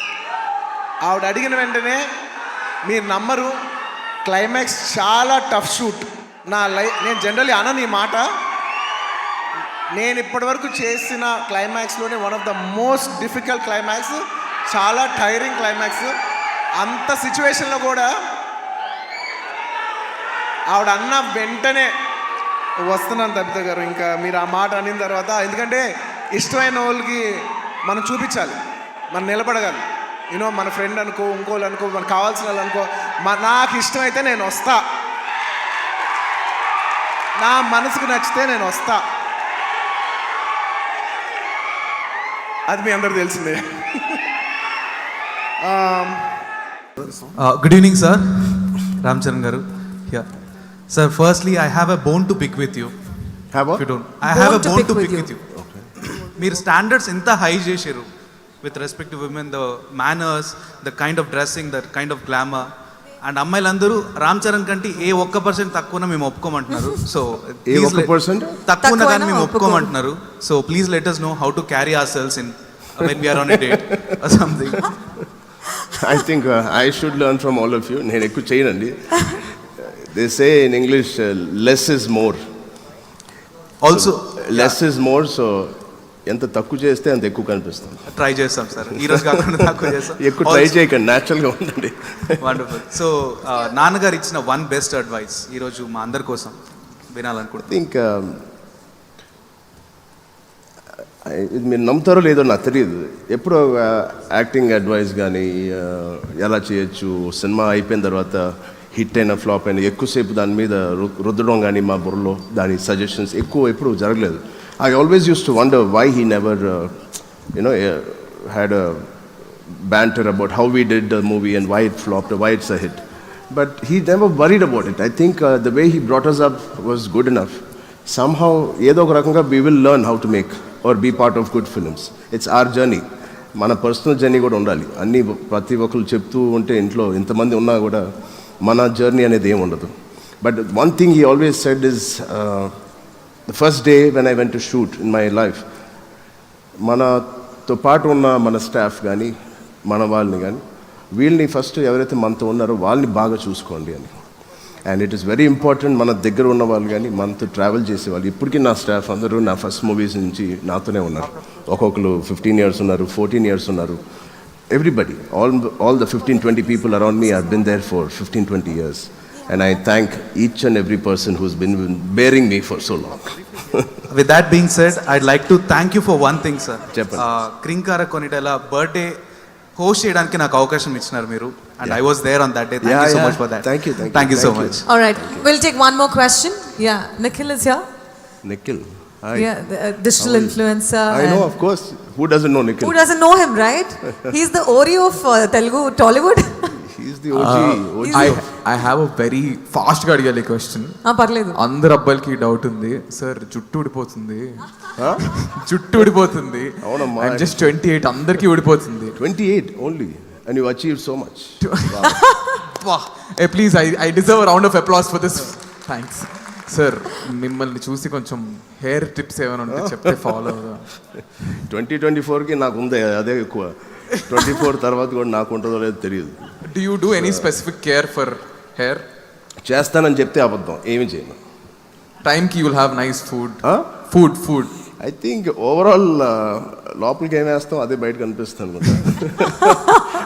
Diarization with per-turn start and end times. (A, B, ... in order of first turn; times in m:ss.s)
0:01.0-0:02.0 A
0:02.8-0:03.6 A
0:04.2-0:08.3 A
0:09.9-0:16.1 A
0:16.8-0:18.1 A
0:20.7-0:21.9 A
0:22.8-0:27.2 A
0:27.8-0:28.6 A
0:29.1-0:34.8 A
0:37.4-0:39.0 A
0:42.7-0:44.2 A
0:45.6-0:46.3 A
0:47.3-0:50.3 B
0:50.9-0:53.0 B
0:53.5-0:53.8 C
0:53.8-0:55.4 B
0:54.2-0:55.3 D
0:55.5-0:55.9 C
0:56.0-0:58.1 B
0:58.6-1:02.7 B
1:03.2-1:14.9 B
1:07.7-1:08.6 C
1:08.8-1:09.9 D
1:13.5-1:13.8 C
1:16.0-1:22.4 C
1:23.8-1:24.8 B
1:23.9-1:28.1 C
1:28.1-1:30.8 B
1:29.0-1:32.6 C
1:32.4-1:36.6 B
1:37.1-1:37.7 B
1:37.7-1:38.5 C
1:41.2-1:59.1 C
1:59.7-2:18.1 C
2:18.6-2:22.8 C
2:23.5-2:25.7 C
2:26.8-2:29.3 C
2:29.8-2:34.2 C
2:34.8-2:44.0 C
2:44.7-2:53.9 C
2:54.1-2:59.2 B
2:56.9-2:57.3 C
2:59.8-3:04.9 B
3:02.8-3:05.5 C
3:04.9-3:07.8 D
3:08.4-3:09.5 C
3:09.4-3:11.6 D
3:10.2-3:13.0 C
3:12.8-3:16.8 D
3:16.9-3:18.5 C
3:17.3-3:29.2 E
3:18.0-3:18.4 D
3:21.0-3:21.6 D
3:25.0-3:25.2 C
3:26.8-3:27.8 C
3:29.2-3:32.2 C
3:31.6-3:32.1 E
3:32.1-3:32.5 D
3:32.8-3:40.9 E
3:39.7-3:40.1 C
3:41.5-3:46.6 C
3:46.6-3:49.1 E
3:47.1-3:47.5 C
3:49.6-3:51.4 C
3:52.2-3:54.8 E
3:53.6-3:53.9 C
3:55.0-3:59.8 C